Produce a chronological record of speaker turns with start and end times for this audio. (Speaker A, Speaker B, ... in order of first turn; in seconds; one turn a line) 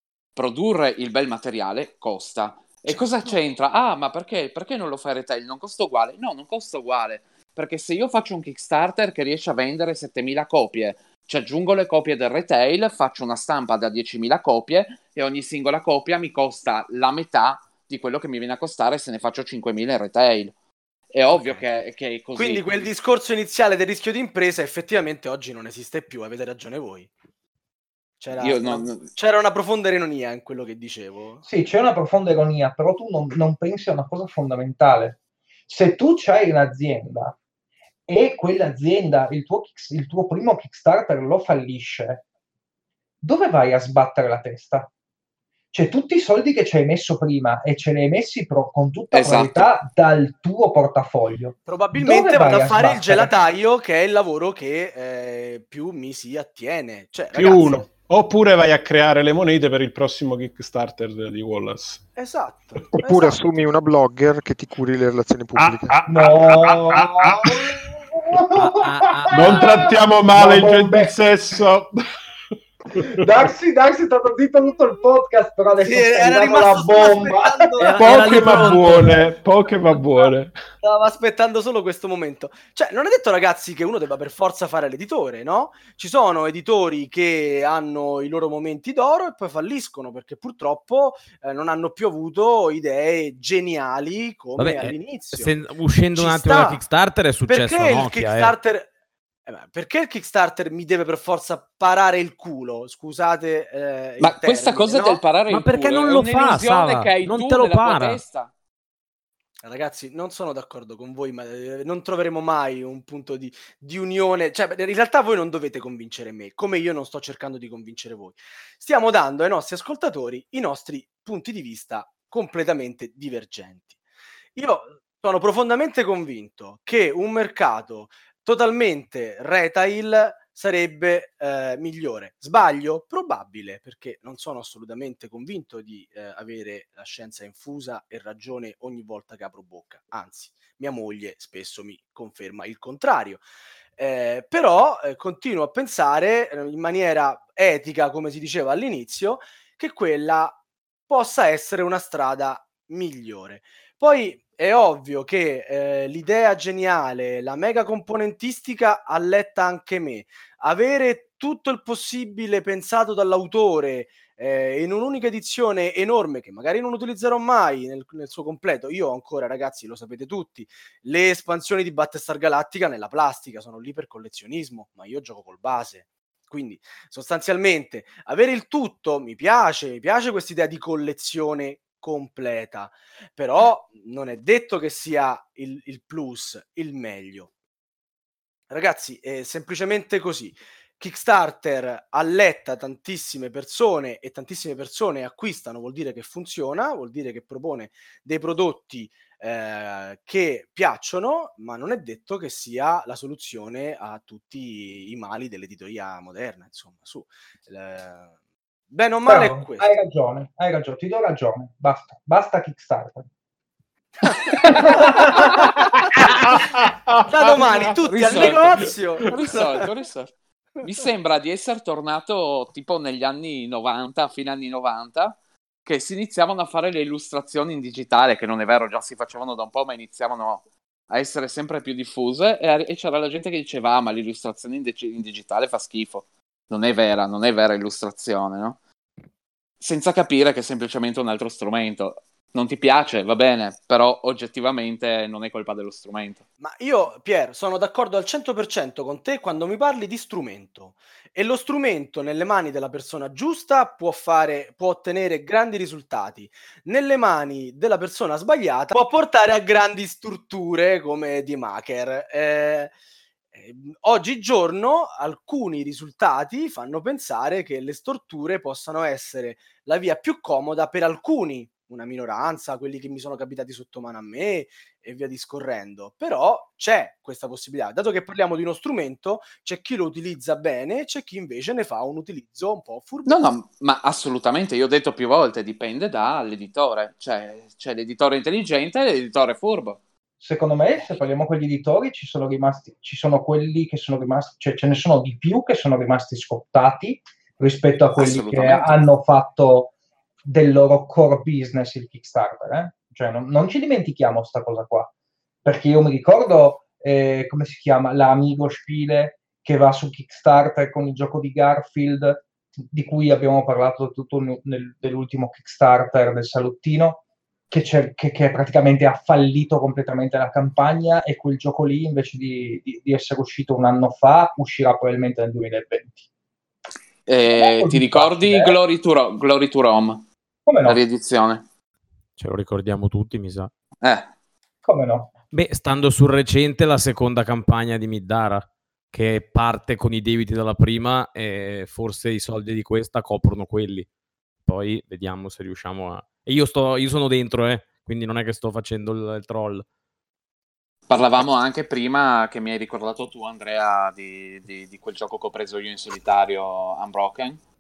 Speaker A: 0.4-20.5
Speaker B: 2.9-3.3
Speaker A: 21.1-22.9
Speaker B: 21.4-21.6
Speaker B: 22.4-27.1
Speaker B: 28.2-31.4
Speaker A: 28.4-29.1
Speaker C: 31.4-37.4
Speaker C: 38.1-42.2
Speaker C: 43.2-44.9
Speaker C: 45.7-53.3
Speaker A: 49.1-49.7
Speaker B: 51.7-57.8
Speaker D: 57.3-62.0
Speaker B: 62.2-63.4
Speaker E: 63.0-66.0
Speaker D: 65.6-68.0
Speaker C: 66.1-71.1
Speaker F: 68.6-69.7
Speaker D: 69.4-71.9
Speaker C: 73.0-78.8
Speaker B: 75.8-78.8
Speaker D: 77.8-80.6
Speaker F: 78.0-79.1
Speaker B: 80.8-96.8
Speaker F: 94.6-98.6
Speaker B: 97.5-98.9
Speaker B: 99.5-105.2
Speaker A: 104.2-108.5
Speaker F: 105.5-108.2
Speaker B: 109.6-124.0
Speaker B: 124.6-143.4
Speaker B: 144.0-187.5
Speaker B: 188.7-208.3
Speaker B: 208.9-209.9
Speaker C: 209.3-213.3
Speaker C: 214.5-215.7
Speaker B: 215.0-215.4
Speaker D: 216.5-216.9
Speaker B: 217.3-219.6
Speaker D: 217.5-218.6
Speaker A: 218.2-238.8
Speaker A: 239.8-246.4
Speaker B: 246.6-262.9
Speaker B: 263.5-283.4
Speaker A: 283.3-290.0
Speaker C: 290.4-299.9
Speaker A: 298.1-299.1
Speaker C: 300.5-305.1
Speaker C: 305.6-326.2
Speaker A: 327.3-330.2
Speaker C: 327.5-328.8
Speaker C: 330.7-331.0
Speaker A: 330.9-331.6
Speaker F: 332.4-333.7
Speaker A: 334.0-334.3
Speaker C: 334.9-335.3
Speaker F: 335.5-344.1
Speaker F: 344.7-349.9
Speaker A: 351.1-357.6